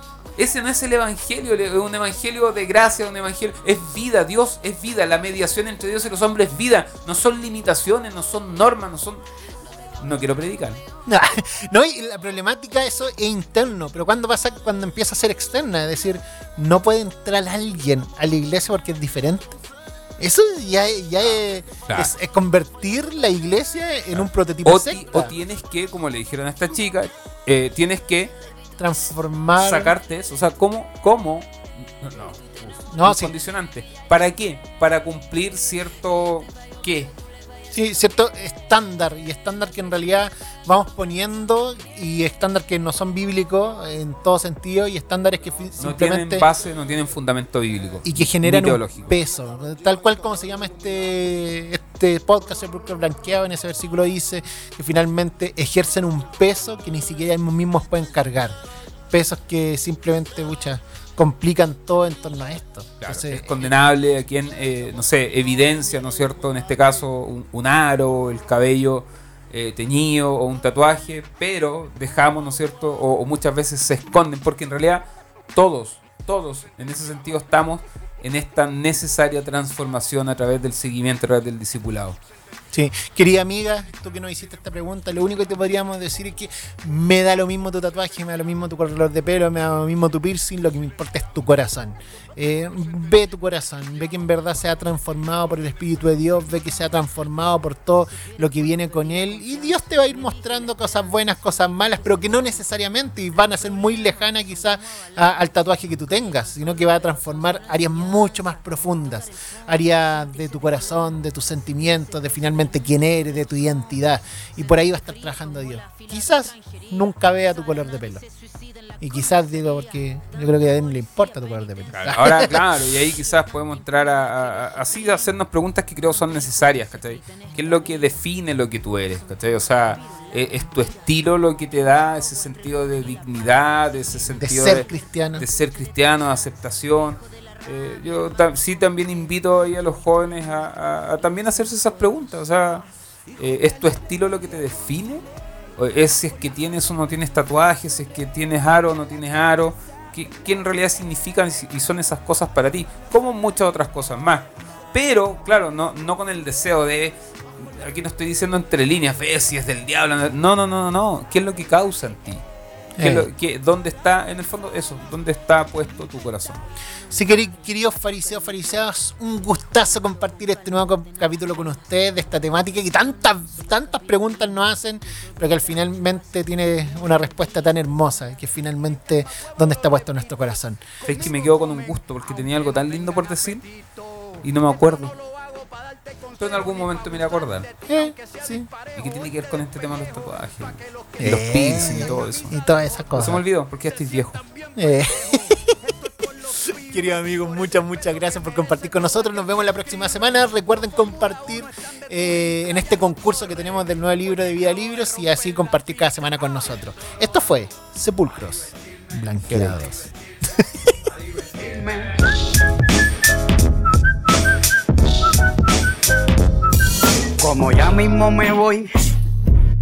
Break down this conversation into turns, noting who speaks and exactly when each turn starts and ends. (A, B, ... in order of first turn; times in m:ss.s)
0:00.4-0:09.3 A
0:10.0-0:10.8 A
0:11.1-0:19.6 B
0:20.2-0:25.3 B
0:21.9-0:22.1 A
0:24.2-0:28.3 A
0:28.8-0:30.0 B
0:29.6-0:37.1 A
0:32.9-0:33.3 B
0:37.7-0:46.5 B
0:45.8-0:49.2 A
0:48.0-0:58.6 B
0:59.1-1:03.7 B
1:03.0-1:22.2 A
1:22.7-1:58.2 B
1:59.0-2:02.7 B
2:01.9-2:22.8 A
2:14.4-2:15.5 B
2:23.4-2:25.2 A
2:25.8-2:42.4 A
2:43.0-2:43.3 B
2:43.0-2:46.7 A
2:47.1-3:00.9 B
3:01.0-3:03.7 A
3:04.4-3:05.2 A
3:06.4-3:07.7 A
3:07.9-3:08.7 B
3:09.0-3:12.6 A
3:11.2-3:13.4 B
3:13.2-3:14.4 A
3:14.8-3:15.9 B
3:16.4-3:30.7 B
3:29.5-3:29.8 A
3:31.6-3:32.3 C
3:37.4-3:39.1 C